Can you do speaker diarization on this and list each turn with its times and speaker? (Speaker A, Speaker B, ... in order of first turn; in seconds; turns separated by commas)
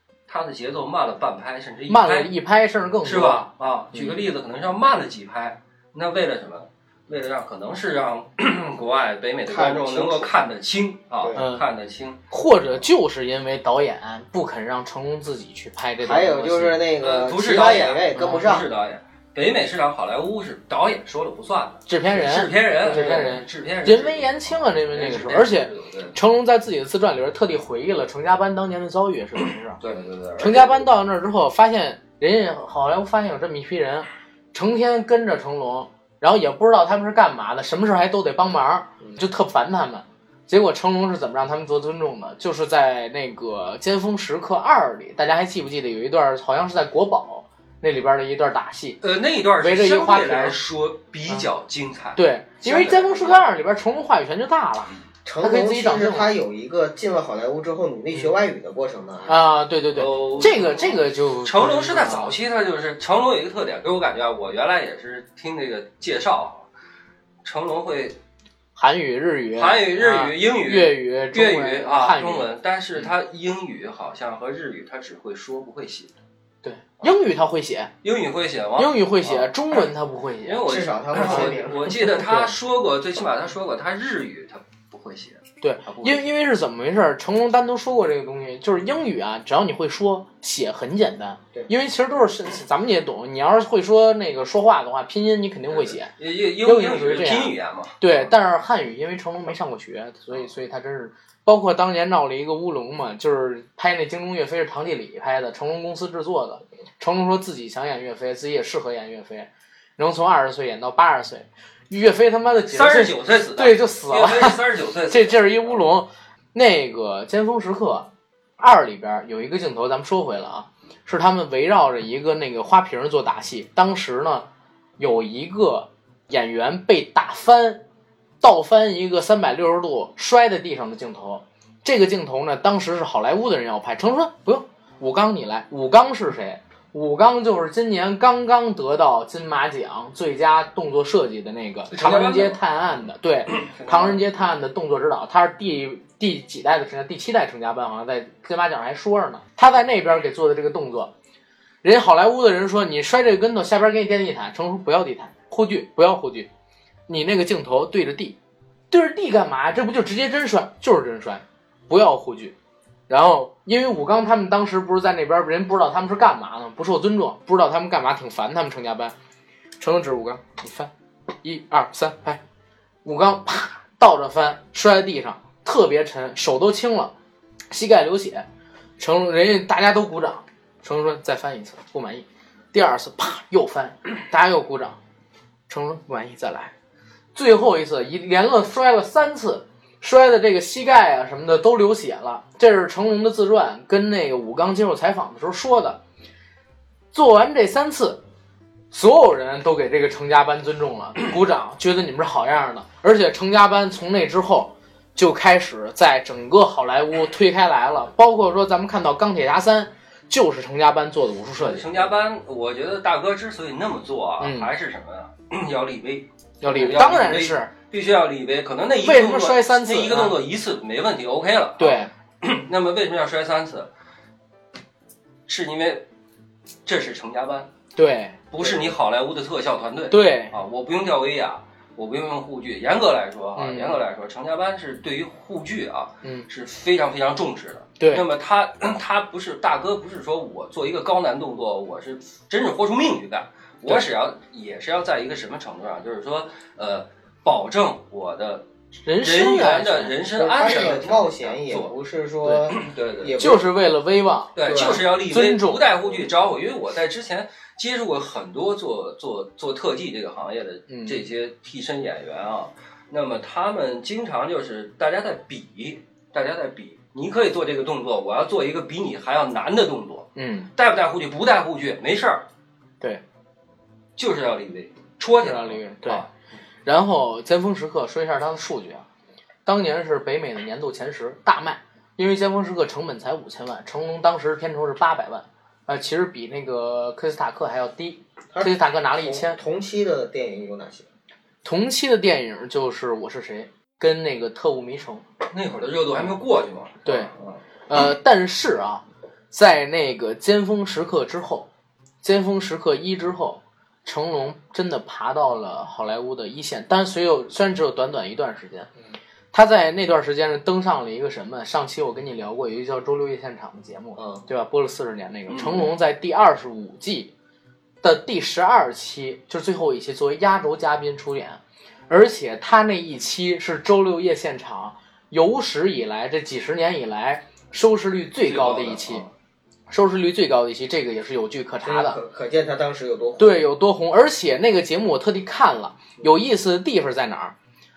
Speaker A: 0.3-2.3, Speaker B: 1.9-4.2, Speaker A: 3.0-12.2, Speaker C: 9.5-10.3, Speaker C: 11.2-11.5, Speaker B: 11.3-11.7, Speaker B: 12.3-16.9, Speaker C: 16.0-18.7, Speaker A: 17.0-26.1, Speaker B: 18.2-18.5, Speaker B: 21.9-29.8, Speaker C: 22.8-23.4, Speaker A: 29.8-30.9, Speaker B: 30.4-49.0, Speaker A: 49.0-53.5, Speaker B: 49.6-50.6, Speaker B: 52.2-56.3, Speaker C: 55.2-59.4, Speaker B: 59.3-62.4, Speaker A: 59.9-66.7, Speaker A: 67.4-68.2, Speaker B: 68.8-72.5, Speaker A: 69.6-76.1, Speaker B: 76.6-77.9, Speaker A: 78.0-79.5, Speaker B: 78.8-82.5, Speaker A: 80.4-86.2, Speaker C: 80.7-82.1, Speaker B: 85.6-124.5, Speaker A: 95.7-98.0, Speaker A: 112.7-115.8, Speaker B: 125.0-127.8, Speaker B: 128.4-151.1, Speaker A: 141.9-142.6, Speaker A: 143.5-144.2, Speaker B: 151.8-156.5, Speaker B: 157.1-158.4, Speaker B: 158.9-162.6, Speaker B: 163.1-169.2, Speaker B: 169.8-170.9, Speaker B: 171.4-172.4, Speaker B: 173.0-177.1, Speaker B: 177.7-178.5, Speaker B: 179.0-185.0, Speaker B: 185.7-186.7, Speaker B: 187.3-196.0, Speaker B: 197.1-198.2, Speaker B: 198.9-212.1, Speaker A: 211.6-223.9, Speaker B: 214.4-214.7, Speaker B: 216.6-217.7, Speaker B: 219.0-220.4, Speaker B: 221.8-222.1, Speaker A: 225.5-226.1, Speaker A: 226.9-227.7, Speaker B: 228.0-228.4, Speaker A: 228.5-248.7, Speaker C: 228.6-228.9, Speaker B: 230.1-230.5, Speaker B: 233.6-234.0, Speaker B: 236.2-236.5, Speaker B: 238.0-238.3, Speaker B: 249.1-251.0, Speaker A: 249.2-251.9, Speaker C: 250.4-253.7, Speaker B: 252.4-252.7, Speaker A: 252.7-253.3, Speaker B: 253.4-255.9, Speaker A: 254.6-272.5, Speaker C: 254.7-255.0, Speaker B: 260.9-261.3, Speaker B: 270.4-270.7, Speaker A: 274.2-276.3, Speaker B: 275.4-276.2, Speaker B: 276.9-279.1, Speaker B: 279.7-289.6, Speaker C: 288.5-291.1, Speaker B: 291.6-295.2, Speaker A: 295.5-297.6, Speaker B: 297.1-297.3, Speaker B: 297.9-301.7, Speaker B: 302.2-308.9, Speaker B: 309.5-317.3, Speaker C: 314.2-314.4, Speaker A: 315.5-315.9, Speaker B: 318.0-329.2, Speaker A: 328.4-329.3, Speaker B: 329.9-332.2, Speaker C: 331.8-333.5, Speaker B: 333.4-337.6